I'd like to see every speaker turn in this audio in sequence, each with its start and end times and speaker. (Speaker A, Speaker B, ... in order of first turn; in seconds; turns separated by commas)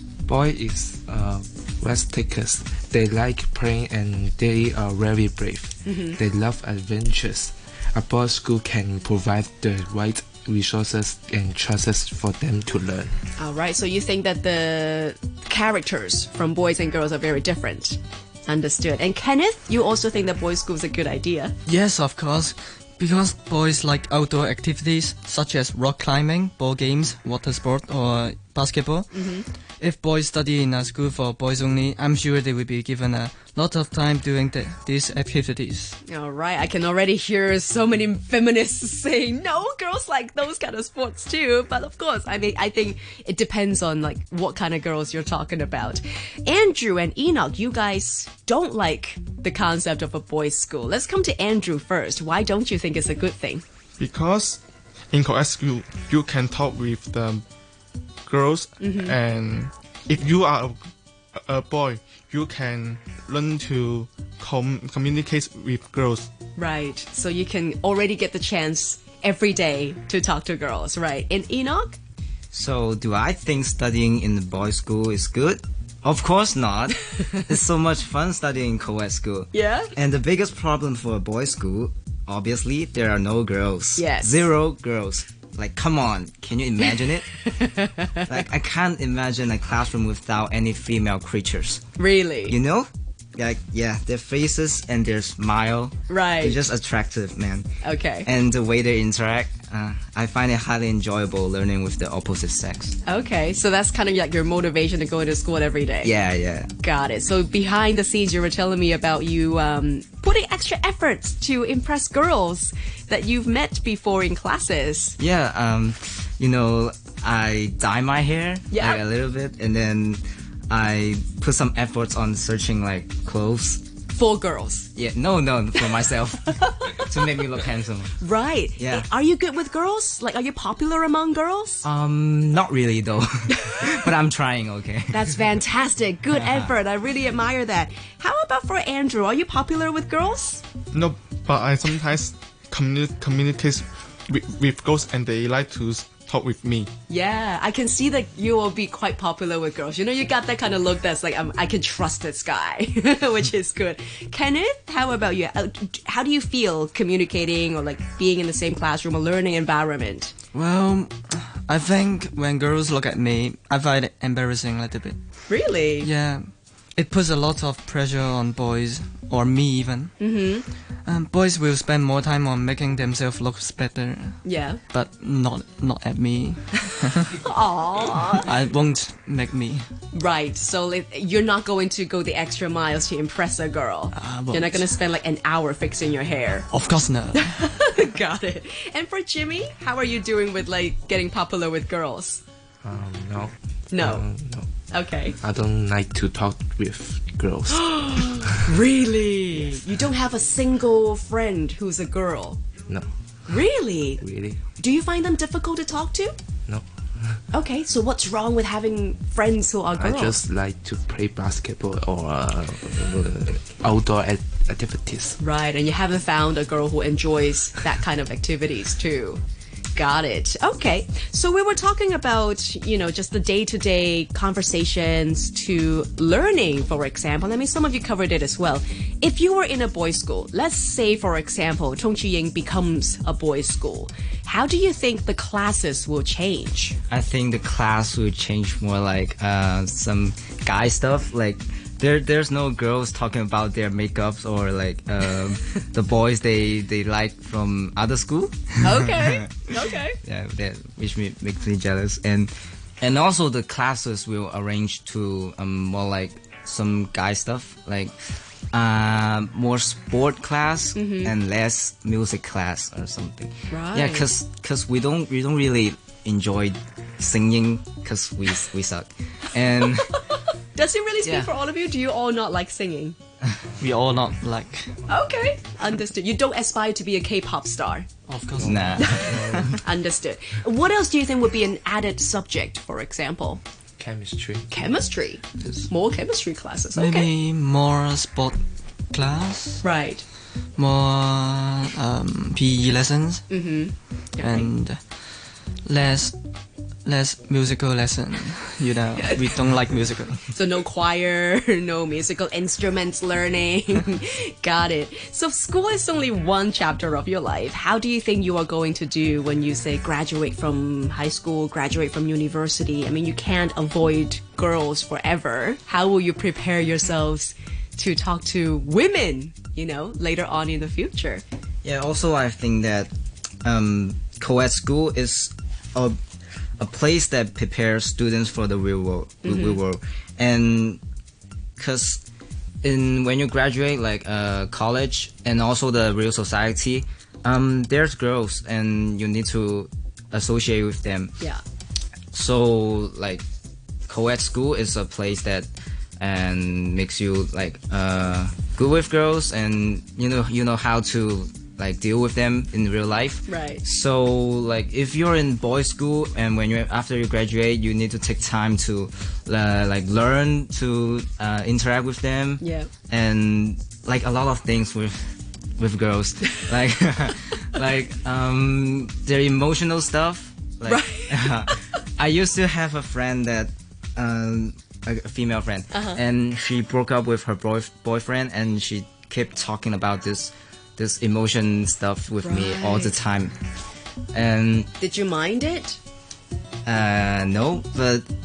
Speaker A: 0.2-13.2, Speaker B: 5.8-6.2, Speaker B: 13.4-21.5, Speaker C: 21.6-29.2, Speaker B: 29.1-29.4, Speaker C: 29.8-36.0, Speaker B: 36.0-53.6, Speaker D: 54.0-54.6, Speaker D: 55.1-57.4, Speaker D: 58.3-60.8, Speaker B: 58.8-59.1, Speaker D: 61.4-66.3, Speaker B: 66.5-72.0, Speaker E: 72.5-87.3, Speaker B: 79.5-79.9, Speaker B: 84.0-84.4, Speaker B: 87.3-88.3, Speaker E: 88.3-91.8, Speaker B: 92.0-92.6, Speaker E: 92.5-97.7, Speaker B: 96.1-96.7, Speaker B: 97.8-98.3, Speaker E: 98.2-103.0, Speaker B: 103.0-106.1, Speaker E: 106.0-106.7, Speaker B: 106.8-115.2, Speaker E: 115.2-123.8, Speaker B: 118.7-119.0, Speaker B: 124.1-124.9, Speaker E: 124.9-128.2, Speaker B: 126.6-127.0, Speaker B: 128.2-131.8, Speaker E: 128.8-129.1, Speaker E: 131.8-135.3, Speaker B: 135.1-140.6, Speaker E: 136.3-136.7, Speaker D: 140.9-146.9, Speaker B: 147.1-160.3, Speaker C: 160.5-165.2, Speaker B: 165.5-166.1, Speaker C: 166.0-166.4, Speaker C: 166.9-170.2, Speaker B: 170.2-170.7, Speaker C: 171.0-177.3, Speaker B: 174.4-174.8, Speaker B: 177.3-178.5, Speaker C: 178.4-179.8, Speaker B: 180.1-186.7, Speaker C: 184.1-184.8, Speaker C: 186.7-187.5, Speaker B: 187.3-192.4, Speaker A: 192.8-194.7, Speaker B: 193.9-194.2, Speaker B: 194.9-195.3, Speaker A: 195.4-198.5, Speaker B: 197.7-202.6, Speaker B: 203.5-204.2, Speaker A: 204.2-204.6, Speaker B: 204.8-206.3, Speaker A: 206.7-207.4, Speaker B: 207.5-210.4, Speaker A: 209.9-215.4, Speaker B: 215.4-219.4, Speaker B: 219.9-236.9, Speaker E: 237.1-249.6, Speaker B: 248.8-250.2, Speaker E: 250.2-258.1, Speaker E: 258.7-270.2, Speaker B: 260.9-261.3, Speaker B: 263.7-264.3, Speaker B: 270.7-273.1, Speaker C: 273.8-274.9, Speaker B: 275.1-278.1, Speaker C: 278.3-279.2, Speaker E: 278.6-279.8, Speaker A: 278.6-279.8, Speaker B: 279.0-283.6, Speaker A: 284.0-284.7, Speaker B: 284.7-287.3, Speaker C: 286.9-288.6, Speaker C: 289.1-289.8, Speaker B: 289.8-290.2, Speaker C: 290.8-293.5, Speaker B: 293.5-294.7, Speaker C: 294.4-295.0, Speaker C: 295.9-296.4, Speaker C: 297.0-300.4, Speaker B: 300.5-321.4, Speaker E: 321.8-323.1, Speaker E: 323.6-326.2, Speaker E: 326.8-331.0, Speaker B: 329.4-329.8, Speaker E: 331.8-332.2, Speaker E: 332.8-341.3, Speaker E: 342.3-343.4, Speaker E: 344.1-345.7, Speaker E: 346.2-365.2, Speaker B: 353.5-353.8, Speaker B: 362.6-362.9, Speaker E: 365.8-383.5, Speaker B: 370.9-371.8, Speaker B: 375.9-376.2, Speaker B: 382.4-383.1, Speaker E: 384.3-384.9, Speaker B: 385.0-386.0, Speaker E: 386.9-388.3